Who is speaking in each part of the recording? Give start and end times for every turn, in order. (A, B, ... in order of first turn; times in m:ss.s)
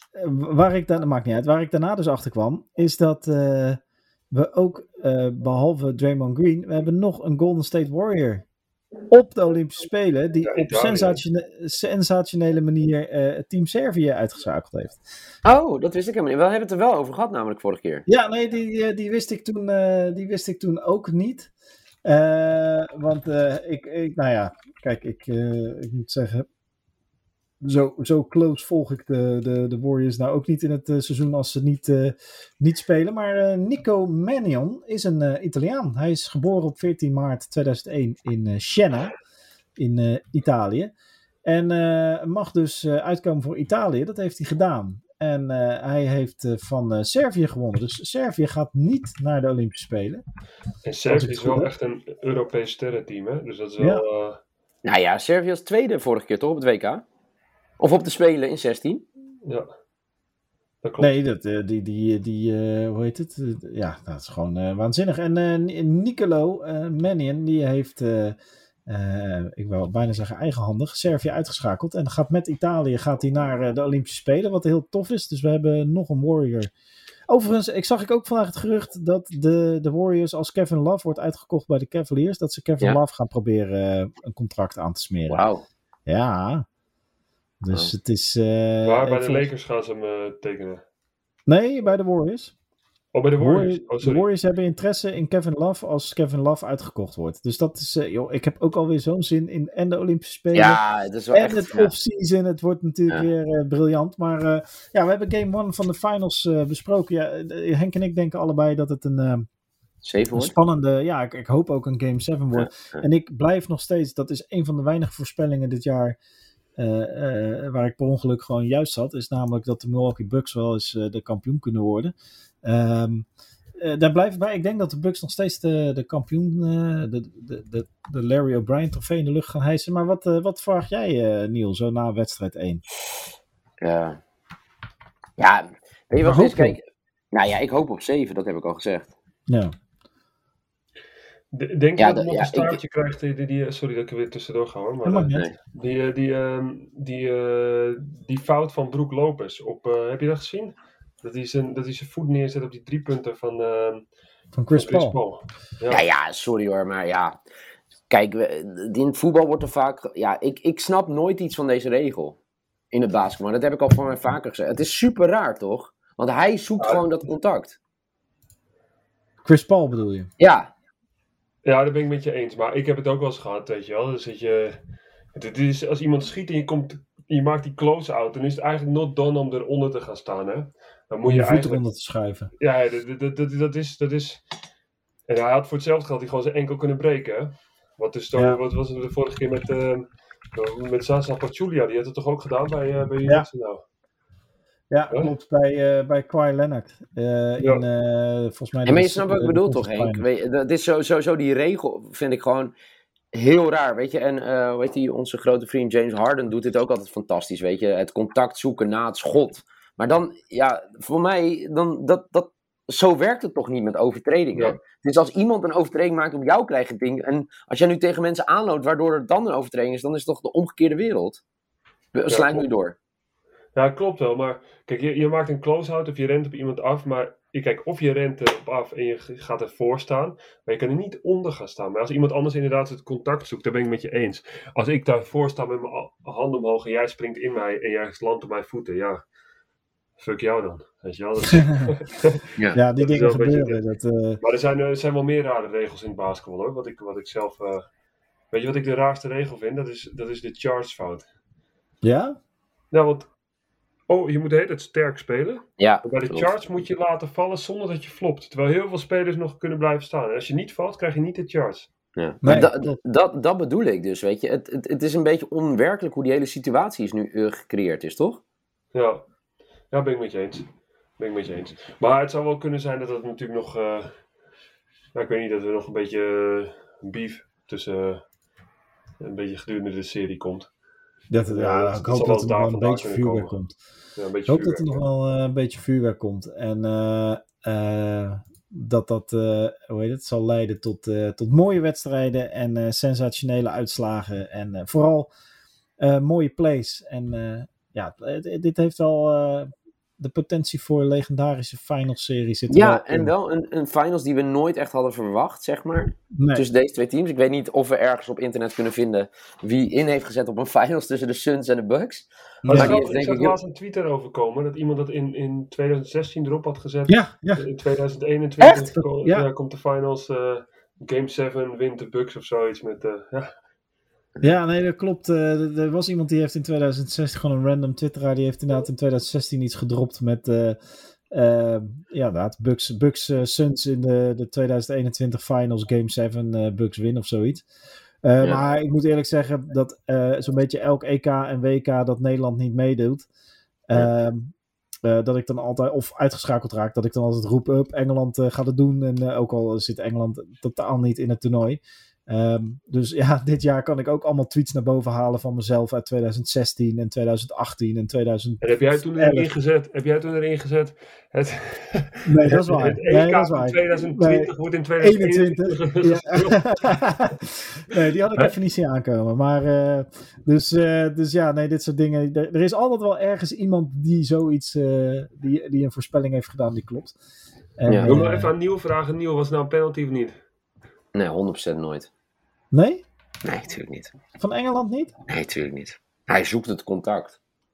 0:00.1-0:03.8 A
0:04.3-0:08.4 A
0:09.1-0:15.0 A
0:10.4-0:11.2 B
0:15.4-0:18.0 C
0:18.1-0:21.5 A
0:22.0-0:26.4 A
0:27.6-0:39.1 A
0:39.8-0:40.9 A
0:41.4-0:50.2 A
0:50.8-0:54.4 B
0:51.1-0:51.7 A
0:54.8-0:57.0 C
0:57.8-0:59.0 C
1:00.8-1:01.1 B
1:01.0-1:16.7 A
1:17.3-1:25.4 A
1:25.3-1:25.6 C
1:26.1-1:26.6 A
1:27.6-1:29.5 A
1:28.8-1:30.8 B
1:31.5-1:32.5 A
1:33.1-1:34.2 B
1:33.4-1:40.8 A
1:40.5-1:41.9 C
1:41.3-1:49.5 A
1:50.0-1:50.5 C
1:50.3-1:56.2 A
1:52.6-1:53.0 C
1:56.8-2:12.8 A
2:13.8-2:14.2 C
2:15.4-2:19.1 C
2:16.2-2:16.8 A
2:19.5-2:19.7 A
2:21.5-2:34.0 B
2:22.0-2:22.8 C
2:25.0-2:25.4 A
2:34.5-2:35.2 A
2:34.7-2:36.0 B
2:35.9-2:37.4 C
2:38.1-2:42.4 C
2:42.9-2:47.8 C
2:49.4-2:50.3 A
2:50.4-2:50.7 C
2:51.6-2:54.8 B
2:55.3-3:01.8 B
3:01.2-3:02.5 A
3:02.6-3:04.4 B
3:05.3-3:13.8 B
3:08.3-3:08.6 A
3:14.9-3:20.2 A
3:17.6-3:17.8 B
3:18.8-3:22.7 C
3:23.3-3:41.4 C
3:42.1-3:43.0 C
3:42.3-3:42.6 B
3:43.7-3:59.2 B
4:00.2-4:02.4 B
4:02.7-4:04.4 A
4:03.0-4:03.8 B
4:04.4-4:07.8 B
4:08.5-4:11.3 B
4:12.0-4:12.4 A
4:12.9-4:13.3 B
4:14.1-4:21.9 B
4:15.8-4:16.5 C
4:22.2-4:28.4 C
4:22.4-4:23.0 A
4:28.9-4:29.2 B
4:29.9-4:30.7 B
4:31.2-4:34.2 B
4:35.1-4:38.2 B
4:39.2-4:40.7 B
4:41.3-4:43.7 A
4:41.5-4:43.5 B
4:44.2-4:45.0 B
4:44.5-4:55.3 A
4:56.0-5:03.3 A
5:02.7-5:13.6 C
5:06.3-5:06.6 A
5:12.6-5:13.0 A
5:12.7-5:23.5 B
5:17.1-5:17.6 A
5:19.0-5:19.5 A
5:24.4-5:30.8 A
5:31.3-5:37.6 A
5:38.2-5:43.3 A
5:43.9-5:44.5 A
5:45.0-5:59.5 A
5:58.6-6:07.2 B
6:02.2-6:17.1 A
6:17.8-6:18.5 A
6:17.9-6:18.2 C
6:18.0-6:20.4 B
6:21.1-6:22.1 C
6:22.7-6:23.0 A
6:23.4-6:24.1 C
6:24.4-6:25.1 A
6:25.3-6:27.4 C